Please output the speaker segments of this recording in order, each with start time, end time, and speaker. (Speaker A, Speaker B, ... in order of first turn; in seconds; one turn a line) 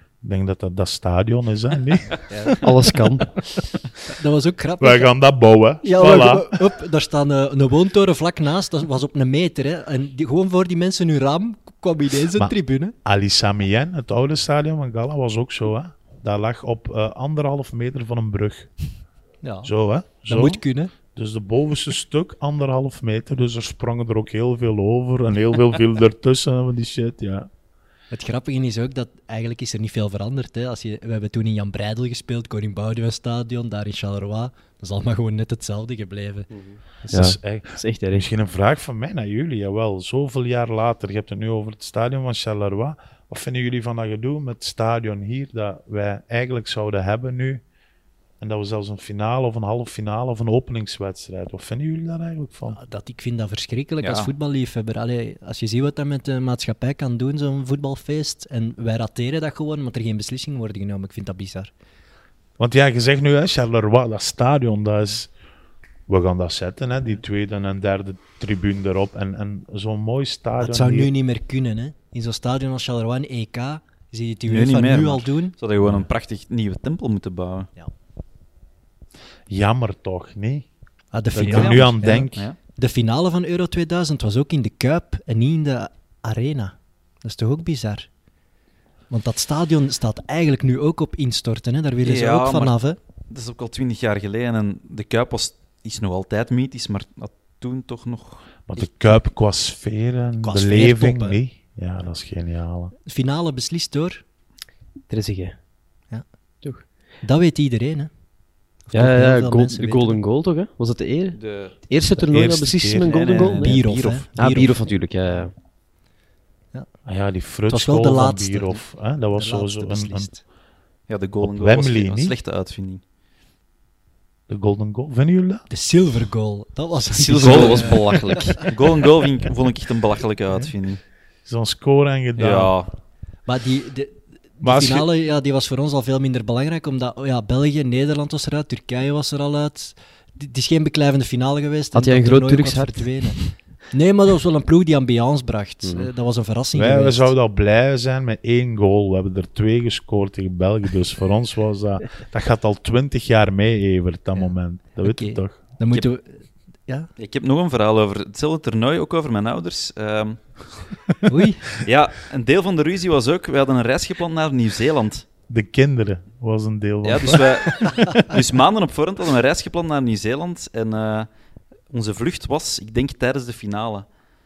Speaker A: 0.2-2.7
Speaker B: 2.6-3.4
Speaker C: 4.1-5.1
Speaker A: 4.8-6.6
Speaker C: 5.8-12.9
Speaker A: 13.0-18.7
Speaker C: 19.4-19.7
Speaker A: 19.6-27.5
Speaker C: 20.3-20.9
Speaker C: 28.1-36.5
Speaker B: 36.5-38.2
Speaker A: 37.1-47.6
Speaker A: 48.4-52.8
Speaker C: 52.7-61.7
Speaker D: 54.0-54.3
Speaker A: 62.6-65.3
Speaker A: 66.1-71.1
Speaker C: 70.6-75.5
Speaker D: 74.5-77.7
Speaker A: 75.8-76.1
Speaker A: 79.5-80.7
Speaker C: 81.1-88.1
Speaker A: 81.3-82.5
Speaker D: 81.4-82.5
Speaker C: 89.1-93.0
Speaker D: 92.0-92.7
Speaker D: 93.3-98.8
Speaker A: 98.7-102.9
Speaker C: 100.4-101.4
Speaker C: 103.0-104.2
Speaker B: 105.1-105.6
Speaker C: 107.2-108.1
Speaker C: 108.8-110.2
Speaker B: 108.9-115.5
Speaker D: 111.3-111.8
Speaker A: 112.2-113.2
Speaker D: 113.0-114.2
Speaker C: 113.5-115.5
Speaker A: 117.0-120.3
Speaker C: 117.7-118.8
Speaker C: 119.3-120.4
Speaker D: 121.1-123.0
Speaker A: 121.4-122.3
Speaker A: 124.5-125.6
Speaker C: 125.7-128.6
Speaker B: 127.1-128.7
Speaker D: 127.4-131.0
Speaker A: 131.4-132.7
Speaker D: 132.3-132.9
Speaker C: 133.4-147.3
Speaker A: 134.6-135.1
Speaker B: 141.9-143.5
Speaker B: 145.8-146.1
Speaker A: 146.7-155.6
Speaker C: 155.0-157.1
Speaker D: 157.2-160.6
Speaker C: 161.2-161.6
Speaker D: 161.8-165.2
Speaker A: 165.5-167.5
Speaker D: 167.0-171.3
Speaker D: 171.9-174.1